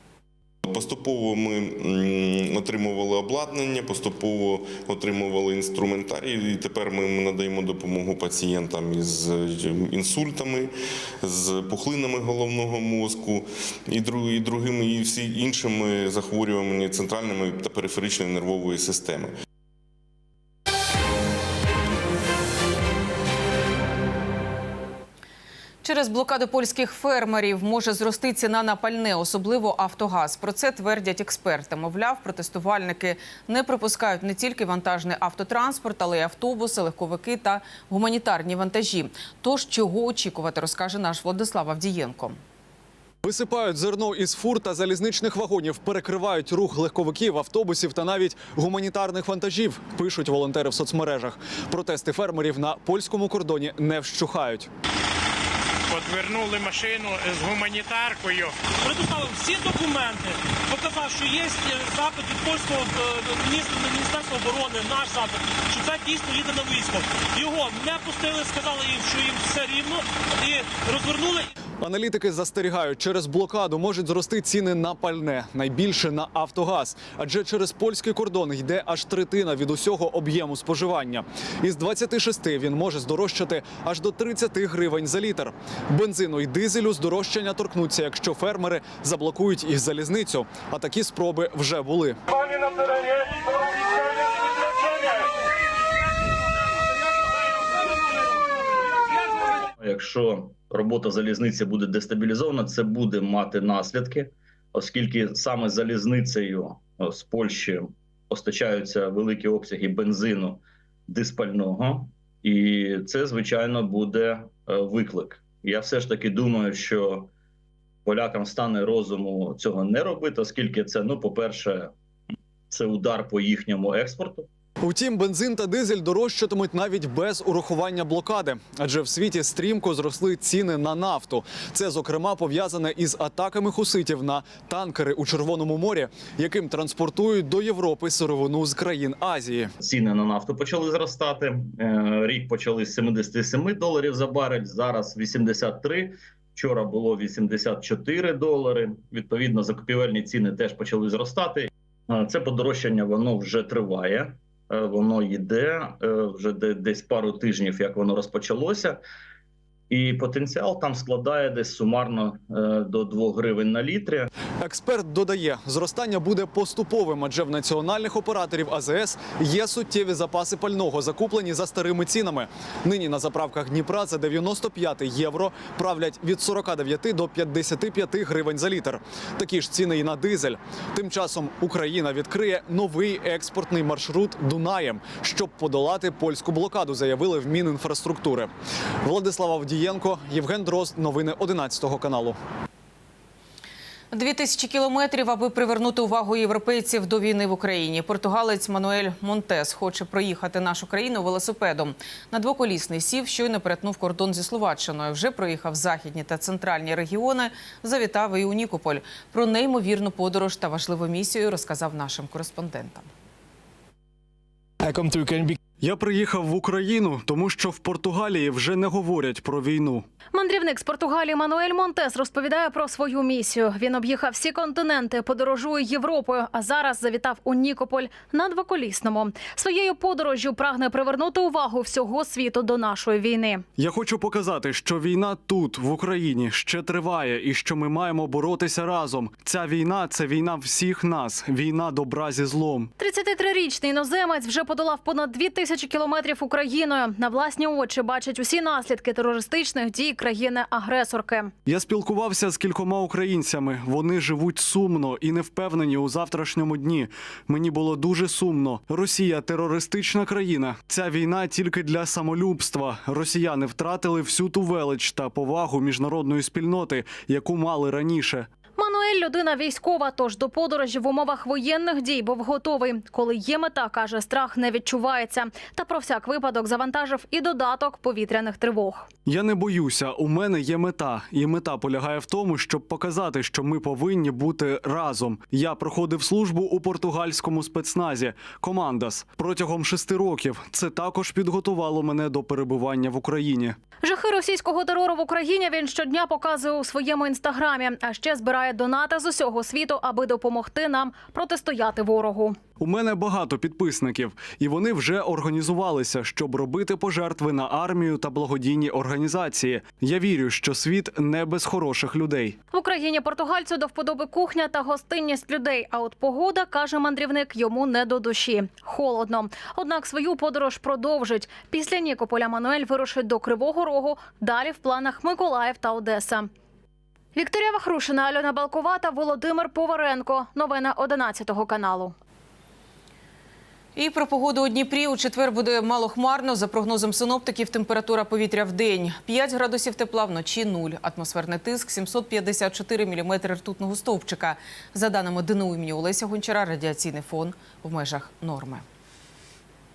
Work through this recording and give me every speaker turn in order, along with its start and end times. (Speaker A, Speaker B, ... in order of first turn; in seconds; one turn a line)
Speaker A: 0.6-19.3
Speaker B: 25.8-42.4
Speaker C: 43.2-54.7
Speaker D: 55.9-71.5
Speaker C: 71.8-92.2
Speaker E: 99.8-117.3
Speaker E: 118.0-121.9
Speaker E: 122.7-124.5
Speaker C: 124.8-139.7
Speaker E: 139.8-159.0
Speaker E: 159.9-164.3
Speaker C: 164.6-188.5
Speaker C: 189.0-192.4
Speaker B: 194.1-213.1
Speaker F: 214.8-220.1
Speaker G: 220.3-233.6
Speaker F: 233.8-242.9
Speaker G: 243.0-251.5
Speaker F: 251.6-268.5
Speaker G: 268.8-279.1
Speaker F: 279.2-293.8
Speaker G: 294.0-302.6
Speaker F: 302.8-312.6
Speaker G: 312.7-326.5
Speaker G: 327.4-332.1
Speaker B: 333.9-348.8